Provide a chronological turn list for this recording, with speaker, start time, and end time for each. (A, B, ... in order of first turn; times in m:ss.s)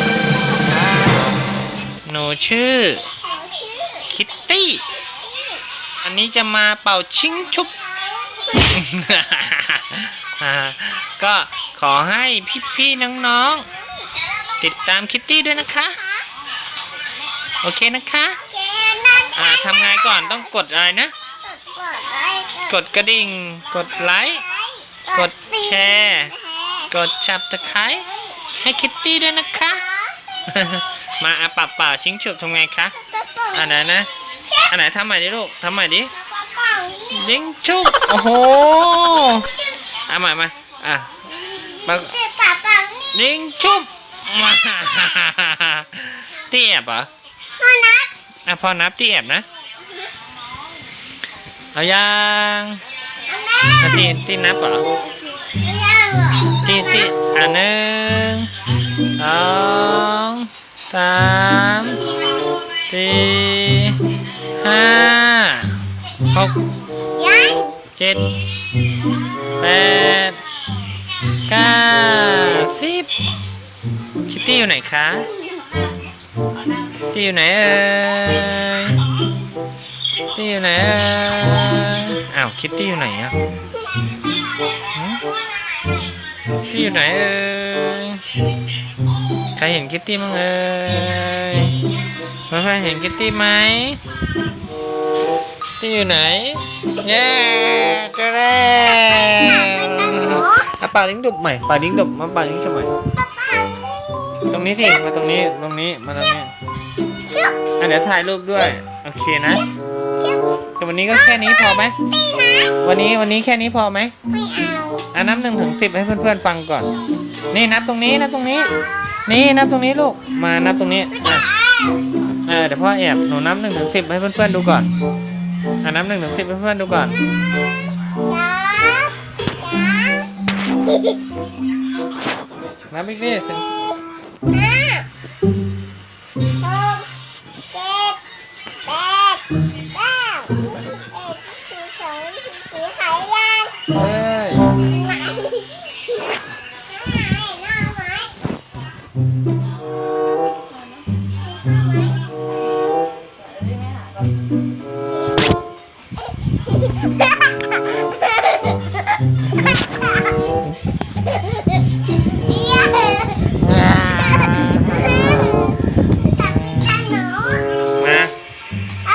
0:02.0-0:03.1 A
0:03.2-0:04.1 B
0:04.1-0:04.8 A
0:05.1-0:05.6 B
0:06.0-0:07.7 A
0:08.0-0:08.7 B
0:08.6-0:13.7 A
0:14.6-0:16.0 A
0:17.6-0:18.4 A
0:18.4-0:19.4 B
0:19.3-0:21.1 A
0:21.4-0:22.7 B
0:22.6-0:24.4 A
0:24.4-0:25.5 B
0:25.1-0:26.3 A
0:26.1-0:26.9 B
0:26.9-0:29.8 A
0:30.5-0:33.0 A
0:33.2-0:33.5 B
0:33.5-0:36.1 A
0:36.4-0:37.2 B
0:37.1-0:39.6 A
0:40.1-0:41.1 A
0:41.5-0:43.1 B
0:41.8-0:42.2 A
0:43.1-0:47.1 A
0:47.6-0:48.1 B
0:48.4-0:49.4 A
0:51.8-0:52.8 A
0:53.3-0:53.8 B
0:53.8-0:54.9 A
0:55.1-0:56.7 B
0:56.6-0:58.5 A
0:59.2-1:02.0 A
1:02.9-1:04.0 A
1:04.6-1:06.6 A
1:07.1-1:07.7 B
1:08.0-1:08.3 A
1:09.6-1:10.4 A
1:11.5-1:13.1 A
1:14.2-1:15.3 A
1:17.1-1:19.0 A
1:20.3-1:23.3 A
1:24.9-1:25.2 A
1:26.7-1:28.3 A
1:29.6-1:31.8 A
1:32.5-1:34.0 A
1:35.8-1:42.9 A
1:39.3-1:40.6 B
1:44.5-1:46.5 A
1:47.3-1:47.6 B
1:47.8-1:49.6 A
1:50.2-1:50.6 B
1:50.8-1:51.9 A
1:52.8-1:54.1 A
1:54.3-1:55.1 B
1:55.1-1:56.9 A
1:57.5-1:58.7 A
1:59.2-2:01.5 A
2:02.4-2:04.9 A
2:05.8-2:07.2 A
2:08.2-2:10.3 B
2:12.9-2:13.7 A
2:14.5-2:15.0 B
2:16.6-2:17.2 B
2:17.7-2:18.2 B
2:18.8-2:23.9 B
2:23.9-2:24.7 A
2:24.8-2:25.8 B
2:27.0-2:28.3 B
2:42.4-2:43.6 B
2:43.6-2:45.8 A
2:44.9-2:45.7 B
2:46.4-2:47.1 A
2:47.0-2:47.7 B
2:48.0-2:48.3 A